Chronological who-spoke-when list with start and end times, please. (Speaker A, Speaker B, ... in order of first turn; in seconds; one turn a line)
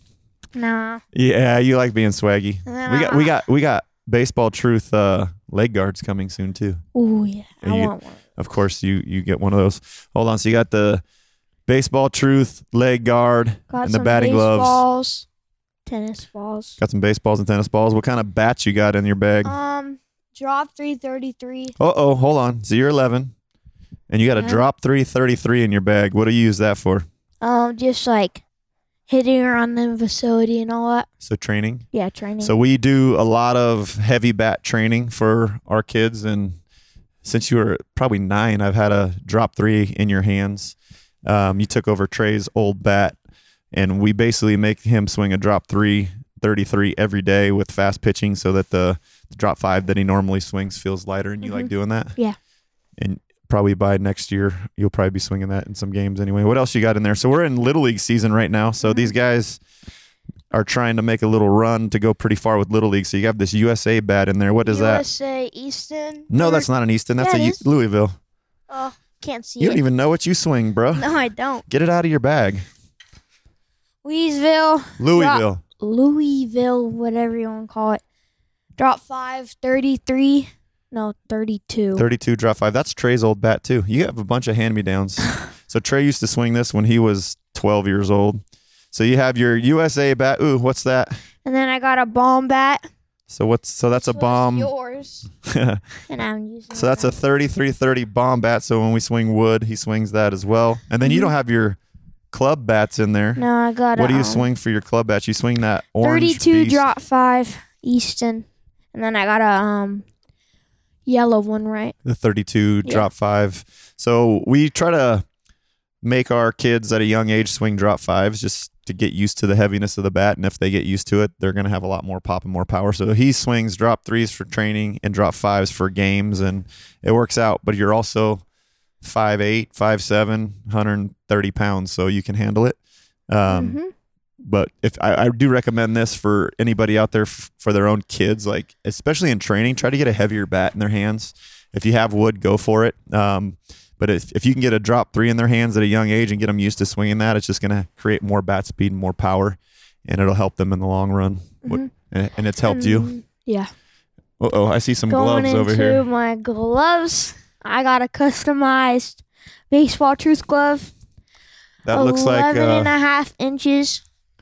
Speaker A: 0.5-1.0
Speaker B: 1.1-6.8
Speaker A: 2.6-3.4
Speaker A: 6.9-8.2
Speaker B: 7.6-11.0
Speaker B: 11.7-14.8
Speaker A: 13.7-15.2
Speaker A: 15.8-16.8
Speaker B: 16.8-19.5
Speaker A: 19.4-21.8
Speaker B: 21.8-23.3
Speaker B: 24.1-27.1
Speaker A: 24.4-24.6
Speaker A: 27.4-28.4
Speaker A: 29.1-31.1
Speaker B: 31.2-31.9
Speaker A: 31.9-32.5
Speaker B: 32.4-36.6
Speaker B: 37.2-43.2
Speaker B: 43.7-52.2
Speaker A: 51.4-52.4
Speaker B: 53.0-59.6
Speaker A: 58.8-59.1
Speaker B: 60.5-65.0
Speaker A: 64.6-67.6
Speaker B: 66.3-68.2
Speaker A: 68.7-69.8
Speaker B: 69.6-71.1
Speaker A: 70.9-71.6
Speaker B: 71.7-72.7
Speaker A: 74.0-78.0
Speaker B: 75.0-75.6
Speaker A: 78.8-82.1
Speaker B: 81.9-91.2
Speaker A: 91.4-92.8
Speaker B: 93.3-94.7
Speaker A: 94.0-95.3
Speaker B: 95.5-95.8
Speaker A: 96.1-97.2
Speaker B: 96.7-101.8
Speaker A: 101.0-101.3
Speaker B: 102.3-106.9
Speaker A: 103.3-104.5
Speaker A: 106.0-110.0
Speaker A: 111.0-111.9
Speaker B: 112.0-115.2
Speaker A: 112.8-113.1
Speaker B: 116.0-128.4
Speaker B: 129.0-133.8
Speaker A: 133.4-133.9
Speaker B: 134.4-153.1
Speaker A: 151.6-151.9
Speaker A: 152.6-153.7
Speaker B: 154.4-156.0
Speaker A: 155.1-160.9
Speaker B: 161.8-162.9
Speaker A: 161.9-164.0